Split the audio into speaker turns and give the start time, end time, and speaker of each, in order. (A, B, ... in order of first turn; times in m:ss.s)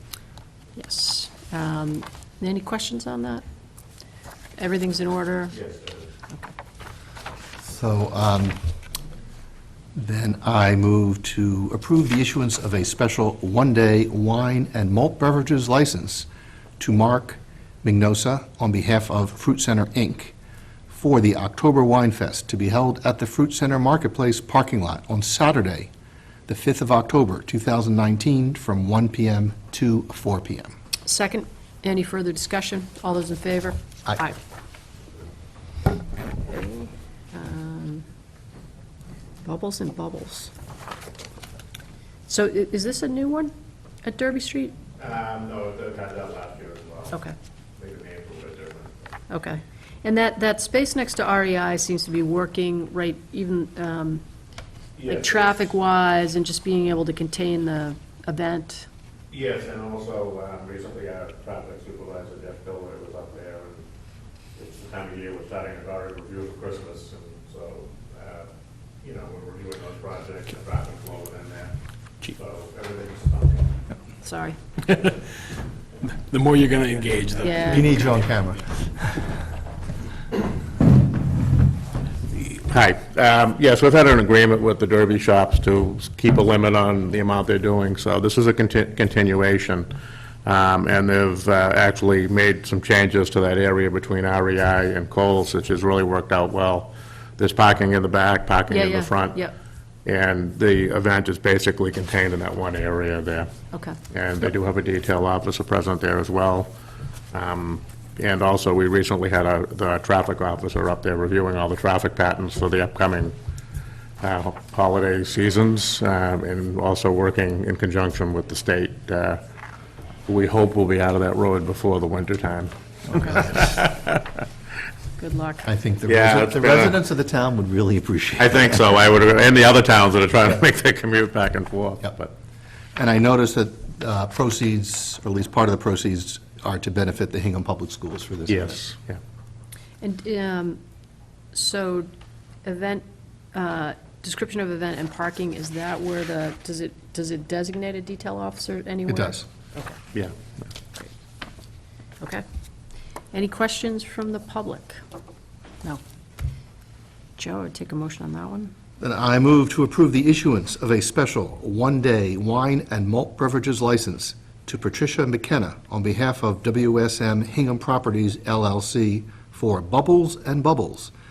0:00.8-0:03.4 A
0:04.6-0:05.6 A
0:07.6-0:08.6 B
0:10.0-0:16.3 B
0:16.8-0:20.4 B
0:20.9-0:25.9 B
0:26.5-0:30.7 B
0:31.0-0:34.4 A
0:36.5-0:38.0 A
0:39.4-0:40.5 A
0:42.3-0:43.5 A
0:44.0-0:44.8 A
0:45.0-0:47.2 C
0:47.8-0:49.1 C
0:49.3-0:54.2 A
0:55.0-0:55.6 C
0:55.1-0:58.9 A
0:59.3-1:03.8 C
1:04.6-1:08.5 C
1:09.0-1:13.8 C
1:14.2-1:14.6 A
1:16.1-1:18.3 D
1:17.4-1:18.0 A
1:17.6-1:19.2 B
1:22.3-1:29.9 C
1:30.4-1:39.4 C
1:38.7-1:39.5 A
1:40.0-1:43.5 C
1:43.7-1:44.0 A
1:44.1-1:46.7 C
1:47.3-1:53.3 C
1:54.2-1:59.4 C
2:00.3-2:04.2 C
2:05.2-2:05.7 A
2:05.6-2:09.0 B
2:06.1-2:07.0 C
2:08.4-2:12.3 C
2:13.0-2:18.8 B
2:18.5-2:19.2 C
2:20.0-2:20.8 A
2:21.5-2:22.1 A
2:22.6-2:30.0 A
2:29.1-2:29.5 B
2:33.3-2:35.0 A
2:37.4-2:38.7 A
2:39.0-2:51.1 B